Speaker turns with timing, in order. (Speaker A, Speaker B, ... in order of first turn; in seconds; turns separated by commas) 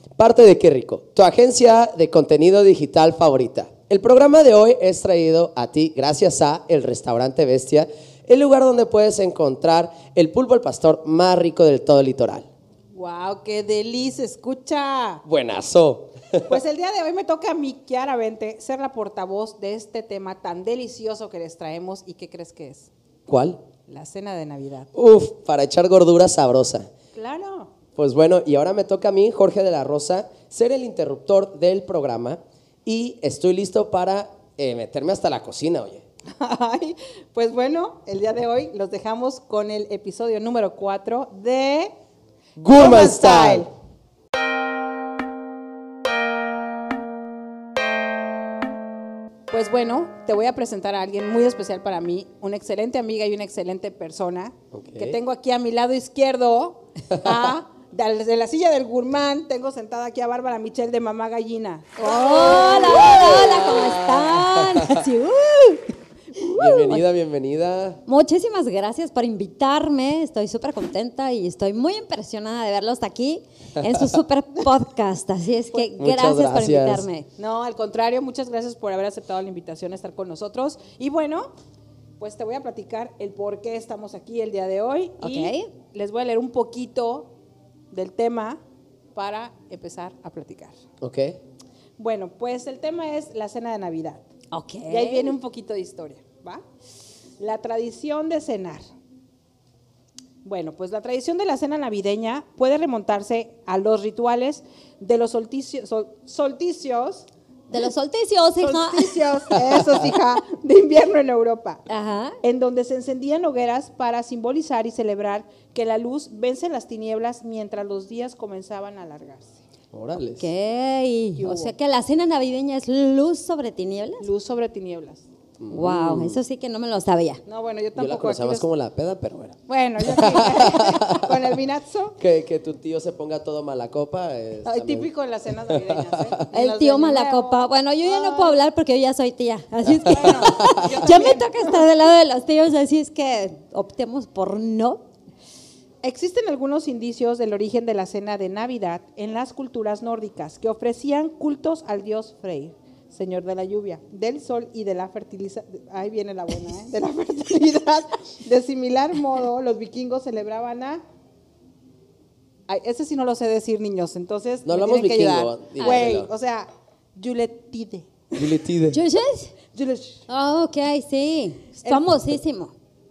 Speaker A: 0.2-12.5, Speaker B: 12.9-15.2, Speaker A: 15.2-16.5, Speaker B: 16.5-22.9, Speaker A: 23.3-23.6, Speaker B: 23.9-24.9, Speaker A: 24.9-26.9, Speaker B: 27.1-27.7, Speaker A: 27.9-36.0, Speaker B: 36.3-41.9, Speaker A: 42.6-43.7, Speaker B: 42.7-43.7, Speaker B: 49.5-63.4, Speaker A: 54.7-55.2, Speaker C: 62.0-65.9, Speaker A: 62.5-65.0, Speaker B: 66.4-66.8, Speaker A: 66.5-68.0, Speaker C: 66.6-67.0, Speaker C: 68.0-77.3, Speaker A: 76.0-77.0, Speaker B: 77.4-81.5, Speaker B: 82.2-87.3, Speaker C: 85.2-85.7, Speaker B: 87.9-88.6, Speaker B: 89.1-90.8, Speaker A: 91.0-91.4, Speaker B: 92.0-94.2, Speaker C: 94.5-95.3, Speaker B: 94.9-96.6, Speaker B: 97.4-98.9, Speaker B: 100.4-107.3, Speaker C: 107.7-109.3, Speaker B: 108.5-111.8, Speaker C: 111.9-112.4, Speaker B: 112.4-119.6, Speaker A: 119.9-120.5, Speaker C: 120.4-124.3, Speaker B: 121.4-121.7, Speaker B: 124.2-125.2, Speaker A: 125.6-126.4, Speaker C: 125.7-127.4, Speaker B: 127.5-128.7, Speaker A: 127.9-131.4, Speaker B: 129.7-132.2, Speaker A: 132.2-135.1, Speaker B: 134.6-138.6, Speaker A: 135.6-136.5, Speaker C: 136.5-145.0, Speaker A: 139.9-141.0, Speaker B: 140.0-141.8, Speaker B: 146.0-161.0, Speaker B: 162.7-168.1, Speaker A: 164.6-166.3, Speaker C: 165.8-166.1, Speaker A: 168.3-169.0, Speaker C: 168.9-169.5, Speaker B: 169.7-170.2, Speaker C: 170.3-172.7, Speaker B: 171.8-172.1